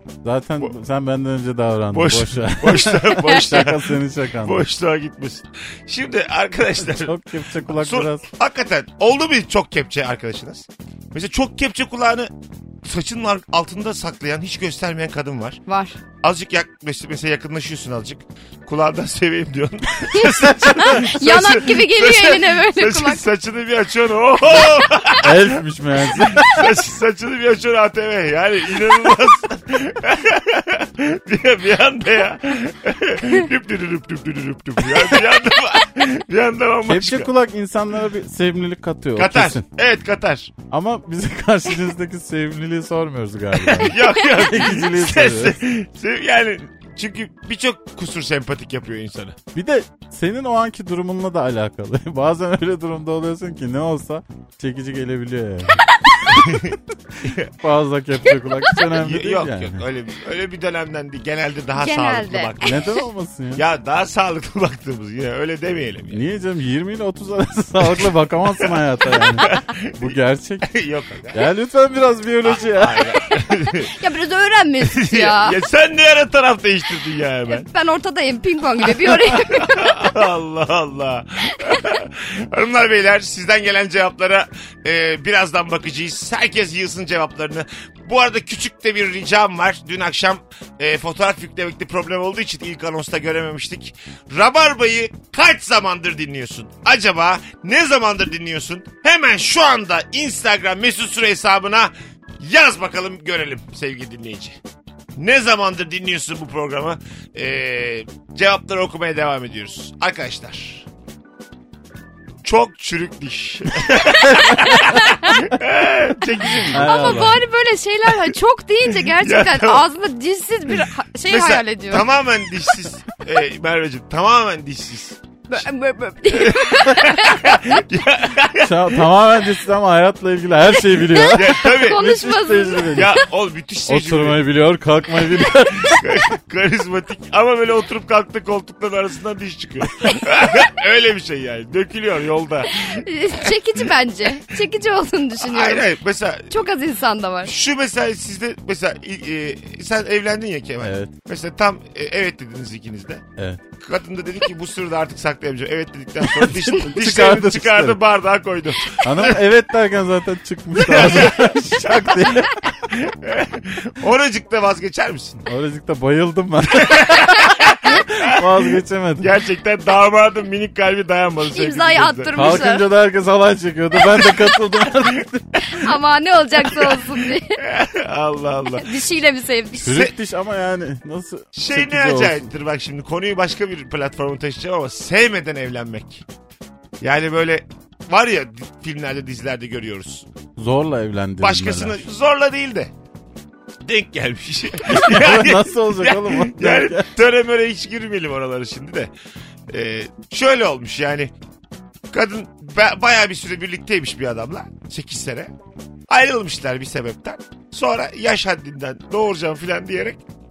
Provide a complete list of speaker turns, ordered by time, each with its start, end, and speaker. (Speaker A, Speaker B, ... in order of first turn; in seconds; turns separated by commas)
Speaker A: 0.2-4.7, Speaker B: 1.9-12.3, Speaker A: 6.8-8.2, Speaker B: 12.8-15.6, Speaker C: 15.7-16.0, Speaker B: 16.2-25.6, Speaker C: 20.1-23.2, Speaker A: 25.2-26.7, Speaker B: 26.4-37.3, Speaker A: 36.9-39.6, Speaker B: 39.1-40.5, Speaker A: 40.7-45.6, Speaker B: 43.7-49.4, Speaker A: 49.5-56.5, Speaker C: 55.8-56.2, Speaker B: 56.3-57.5, Speaker A: 57.5-59.8, Speaker B: 58.9-62.9, Speaker C: 61.8-62.9, Speaker A: 62.6-63.6, Speaker B: 63.5-66.2, Speaker A: 66.1-70.7, Speaker B: 68.6-71.5, Speaker A: 71.3-73.1, Speaker B: 72.4-73.9, Speaker C: 73.6-75.6, Speaker B: 74.8-77.7, Speaker C: 77.5-80.1, Speaker B: 79.0-104.6, Speaker B: 105.2-110.8, Speaker B: 112.4-117.0, Speaker C: 114.4-115.4, Speaker C: 116.4-122.1, Speaker A: 116.7-117.4, Speaker B: 119.0-119.8, Speaker B: 120.8-125.2, Speaker C: 125.5-127.8, Speaker B: 126.3-128.8, Speaker A: 128.6-133.1, Speaker C: 130.9-133.2, Speaker B: 131.3-132.0, Speaker B: 132.9-134.4, Speaker A: 133.9-136.1, Speaker B: 135.4-143.5, Speaker C: 142.7-145.9, Speaker B: 145.4-146.5, Speaker C: 146.5-147.5, Speaker B: 147.4-153.2, Speaker A: 150.8-151.1, Speaker B: 153.8-159.4, Speaker A: 156.2-158.0, Speaker A: 159.0-162.6, Speaker B: 160.8-165.4, Speaker A: 165.4-169.3, Speaker B: 166.8-168.6, Speaker B: 169.2-172.6, Speaker C: 171.5-172.8, Speaker A: 172.3-175.6, Speaker C: 175.7-177.6, Speaker B: 176.8-178.9, Speaker C: 178.8-180.1, Speaker A: 179.8-182.5, Speaker B: 181.5-186.2, Speaker B: 187.0-190.3, Speaker A: 190.6-192.0, Speaker B: 191.4-192.9, Speaker B: 193.8-199.1, Speaker A: 194.8-197.1, Speaker B: 199.7-201.3, Speaker B: 202.1-205.5, Speaker B: 206.1-210.2